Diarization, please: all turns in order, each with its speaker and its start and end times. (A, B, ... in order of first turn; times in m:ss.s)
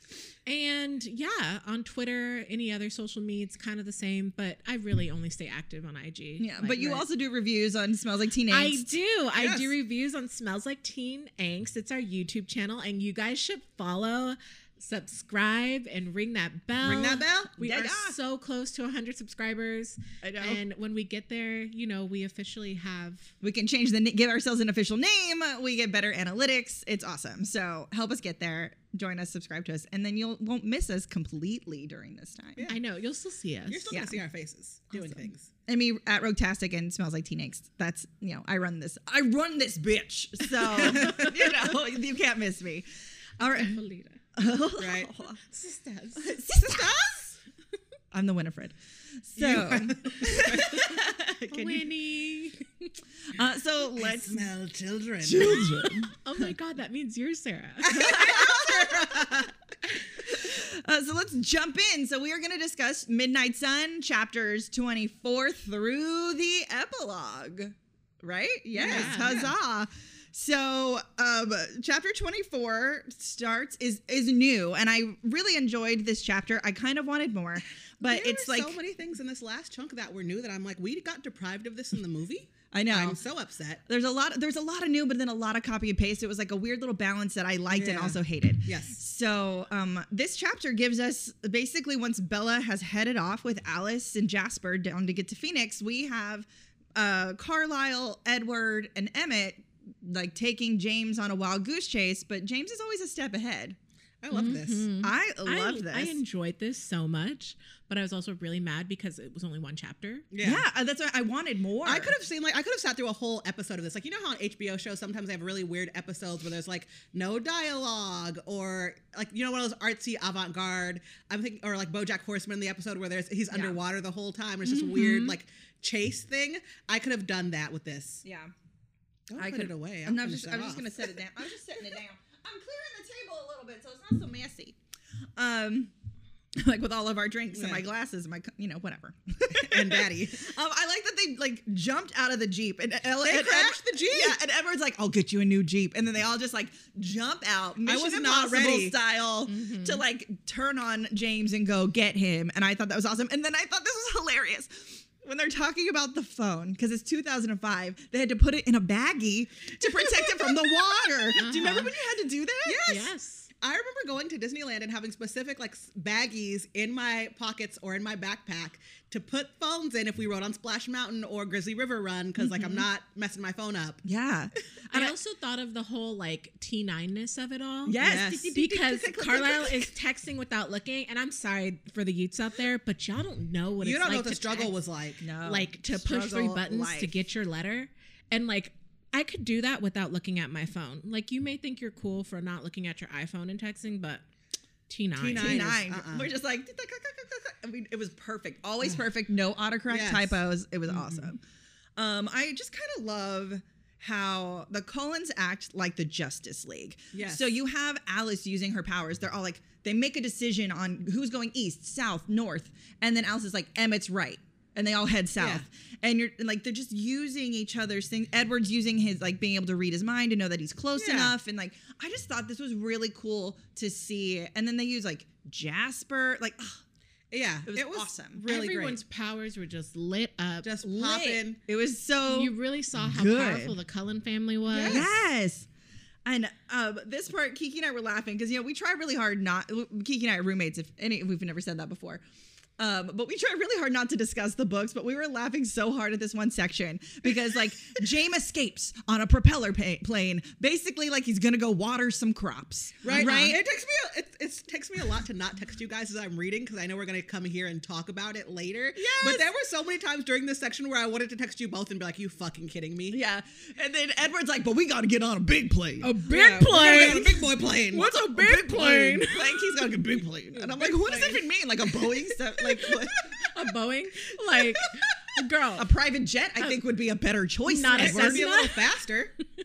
0:00.5-0:07.1 A
0:06.4-0:09.0 B
0:08.5-0:23.3 A
0:09.4-0:09.7 C
0:16.8-0:17.8 C
0:17.6-0:18.2 B
0:20.2-0:20.6 B
0:23.4-0:32.7 B
0:32.7-0:34.0 A
0:33.7-0:35.5 C
0:35.7-0:42.9 B
0:40.8-0:41.4 C
0:43.4-0:43.8 B
0:43.6-0:44.2 A
0:44.4-0:45.4 B
0:44.8-0:45.1 C
0:45.5-0:46.4 A
0:46.2-0:47.1 B
0:46.5-0:47.4 C
0:48.1-0:51.3 B
0:49.4-0:51.9 C
0:51.5-0:52.9 A
0:53.3-0:54.4 B
0:54.1-0:55.7 C
0:55.2-0:56.1 B
0:55.8-0:58.3 A
0:57.8-0:59.5 C
0:57.9-0:59.2 B
1:00.2-1:18.8 B
1:08.8-1:09.4 A
1:08.8-1:09.5 C
1:18.0-1:23.8 C
1:22.7-1:23.2 B
1:23.9-1:43.8 B
1:27.7-1:29.0 C
1:44.2-1:44.9 C
1:44.3-1:50.3 A
1:45.0-1:46.2 B
1:50.3-1:50.6 C
1:50.4-1:52.2 B
1:51.8-2:08.2 C
2:04.6-2:05.4 B
2:08.2-2:08.5 B
2:09.3-2:11.0 C
2:09.4-2:14.8 B
2:15.4-2:15.9 B
2:16.6-2:42.9 B
2:17.5-2:17.8 C
2:19.5-2:20.5 C
2:23.2-2:24.4 C
2:27.8-2:29.0 C
2:29.5-2:30.0 A
2:39.8-2:41.8 C
2:41.4-2:41.9 A
2:42.6-2:54.0 C
2:42.9-2:43.5 A
2:52.4-2:52.8 B
2:54.0-2:55.2 B
2:54.9-3:04.7 A
2:57.9-2:59.9 B
2:58.0-2:58.5 C
3:03.8-3:05.2 C
3:05.2-3:07.1 B
3:05.4-3:14.2 A
3:14.9-3:15.7 A
3:15.2-3:16.3 C
3:15.4-3:21.4 B
3:19.9-3:20.4 C
3:20.9-3:21.3 C
3:22.0-3:46.8 B
3:27.1-3:27.5 C
3:35.4-3:35.6 C
3:41.0-3:41.3 C
3:47.3-3:49.0 C
3:47.7-3:48.4 B
3:48.4-3:50.8 A
3:50.6-3:51.6 C
3:50.9-3:53.8 B
3:52.3-3:55.0 A
3:54.7-3:55.1 C
3:54.8-3:55.7 B
3:56.2-4:02.2 B
4:02.8-4:13.6 B
4:13.0-4:23.2 C
4:13.1-4:13.5 A
4:19.0-4:19.5 B
4:23.1-4:27.4 B
4:26.0-4:29.7 A
4:26.3-4:28.1 C
4:27.9-4:33.5 B
4:30.7-4:31.4 C
4:33.5-4:35.9 A
4:35.8-4:38.5 B
4:37.7-4:38.9 A
4:37.9-4:39.3 C